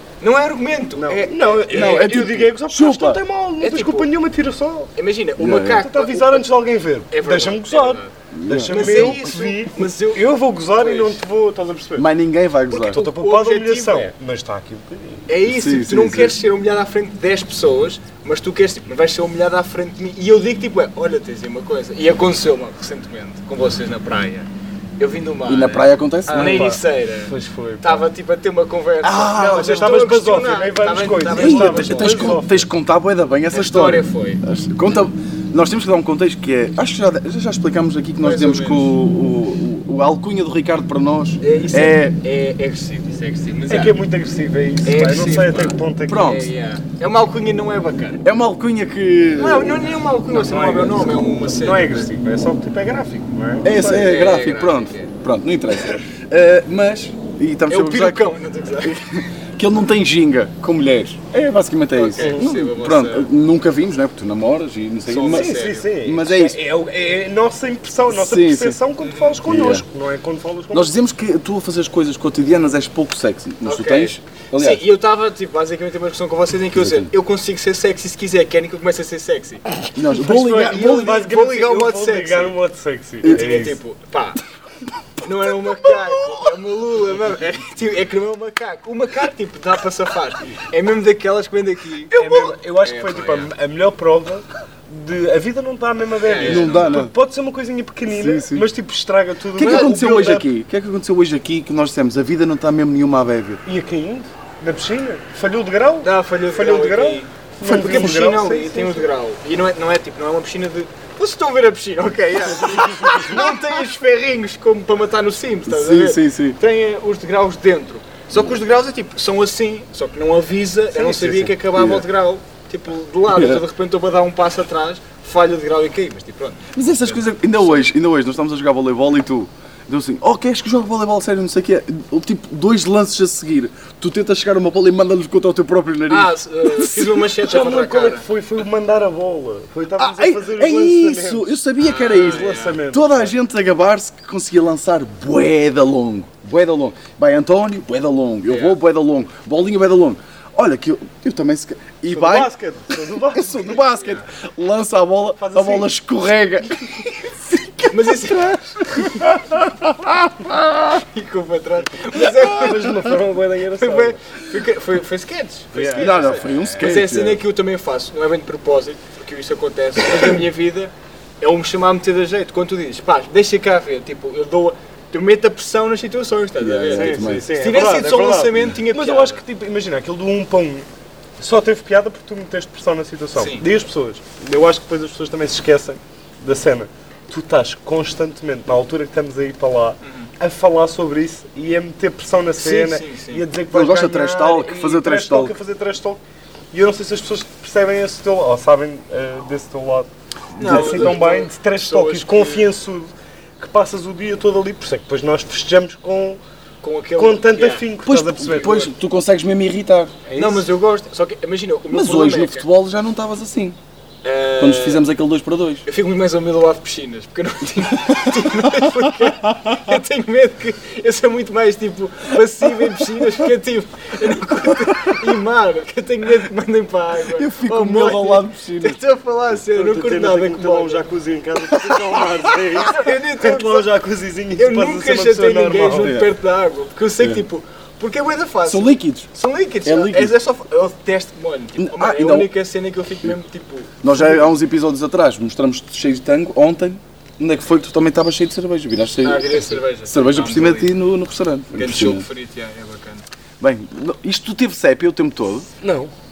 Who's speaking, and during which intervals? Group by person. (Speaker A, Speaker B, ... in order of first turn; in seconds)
Speaker A: 0.2-2.2, 3.6-4.1, 5.0-6.5, 7.1-8.1, 8.7-11.2, 12.7-14.1, 15.3-32.3, 33.5-34.4, 38.2-38.9, 41.4-44.0, 44.8-48.2, 49.4-52.1, 53.7-55.1, 57.7-59.0, 61.9-63.3, 65.1-65.9, 69.0-69.4, 73.6-79.6, 80.1-82.5, 83.2-84.4, 85.2-93.5, 96.2-97.0, 106.0-127.9, 136.1-138.2, 141.8-142.8, 148.5-148.8, 157.9-158.6, 160.9-163.1, 163.8-179.4, 183.4-183.6, 190.0-190.3, 192.6-193.4, 200.6-202.6, 206.8-207.9, 208.6-208.9, 210.3-212.7, 214.2-215.0, 215.8-231.0, 232.8-233.9, 234.6-244.3, 249.2-250.9, 251.7-253.2
Speaker B: 1.0-4.9, 5.7-12.1, 12.8-15.3, 26.3-28.1, 29.3-32.7, 43.7-46.5, 50.3-54.0, 62.2-62.5, 65.2-70.9, 80.6-83.8, 92.1-100.5, 103.6-109.1, 120.9-121.5, 137.4-141.5, 142.1-143.3, 152.1-153.8, 155.4-155.9, 162.2-164.2, 165.7-166.3, 176.9-180.9, 181.4-206.4, 207.2-208.8, 210.2-210.7, 229.7-236.1, 255.8-256.1
Speaker C: 1.7-3.2, 5.4-5.8, 8.3-9.2, 12.0-13.0, 15.4-16.4, 25.5-26.7, 29.0-29.9, 31.3-42.1, 46.1-46.5, 48.2-49.8, 53.6-66.6, 68.1-68.8, 69.5-69.8, 70.7-74.8, 76.7-77.1, 79.9-81.1, 85.8-86.5, 96.4-97.1, 98.1-98.7, 99.5-103.6, 115.7-116.6, 121.7-122.0, 123.3-123.6, 126.7-137.2, 140.0-152.5, 153.3-161.0, 165.9-167.4, 176.6-177.5, 193.7-195.5, 200.6-201.2, 208.0-210.2, 211.9-213.8, 214.6-215.8, 218.6-219.3, 227.3-229.0, 235.9-236.3, 238.7-239.3, 239.8-240.3, 241.8-242.5, 244.0-252.2, 253.6-255.7